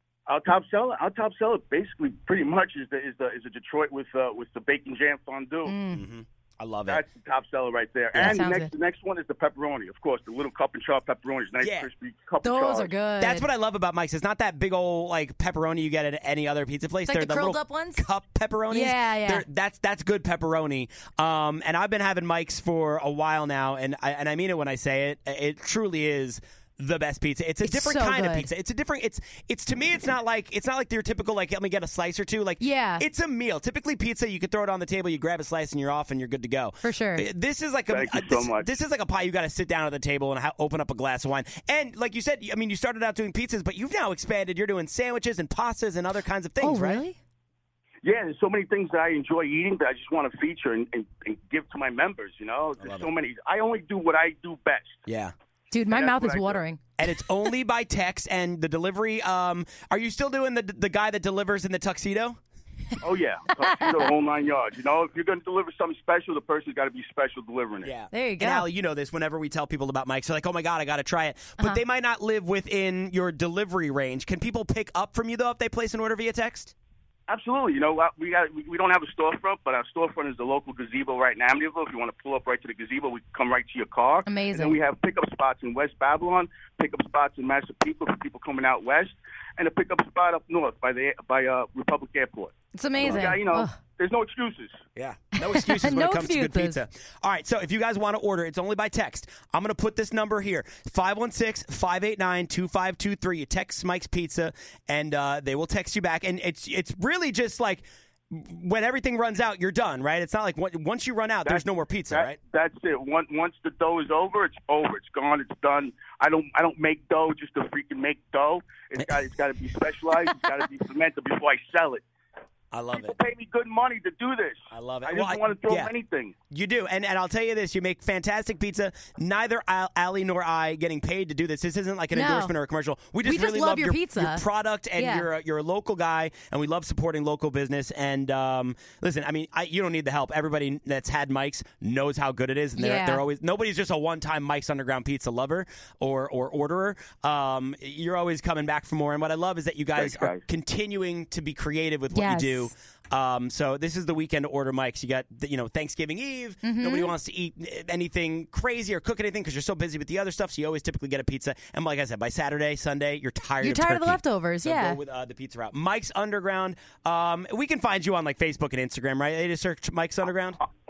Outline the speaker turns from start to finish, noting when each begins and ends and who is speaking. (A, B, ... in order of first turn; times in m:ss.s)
0:00.3-0:05.8 A
0:05.7-0:06.1 B
0:05.9-0:07.0 C
0:06.9-0:13.0 A
0:08.2-0:08.7 B
0:11.6-0:11.9 C
0:12.4-0:13.5 B
0:13.2-0:47.0 C
0:17.1-0:18.1 B
0:18.7-0:19.4 B
0:27.6-0:28.5 B
0:32.6-0:33.0 B
0:36.8-0:37.3 B
0:37.9-0:38.7 A
0:46.6-0:47.2 B
0:48.0-0:55.0 A
0:52.8-0:53.1 C
0:55.1-0:55.3 C
0:55.7-0:56.8 B
0:55.9-0:56.6 A
0:57.0-1:02.4 C
1:03.0-1:07.9 A
1:07.8-1:16.7 C
1:08.1-1:08.7 B
1:17.3-1:34.8 A
1:24.3-1:24.8 B
1:32.7-1:33.8 B
1:33.0-1:33.3 C
1:35.0-1:52.4 C
1:35.4-1:36.8 B
1:51.4-2:02.0 A
2:02.7-2:03.2 C
2:02.9-2:06.3 A
2:04.7-2:05.9 C
2:06.5-2:50.6 C
2:12.1-2:12.5 B
2:13.2-2:14.4 B
2:15.0-2:15.3 B
2:22.8-2:23.2 B
2:30.0-2:30.4 A
2:32.1-2:32.7 B
2:36.6-2:37.1 B
2:43.6-2:45.0 B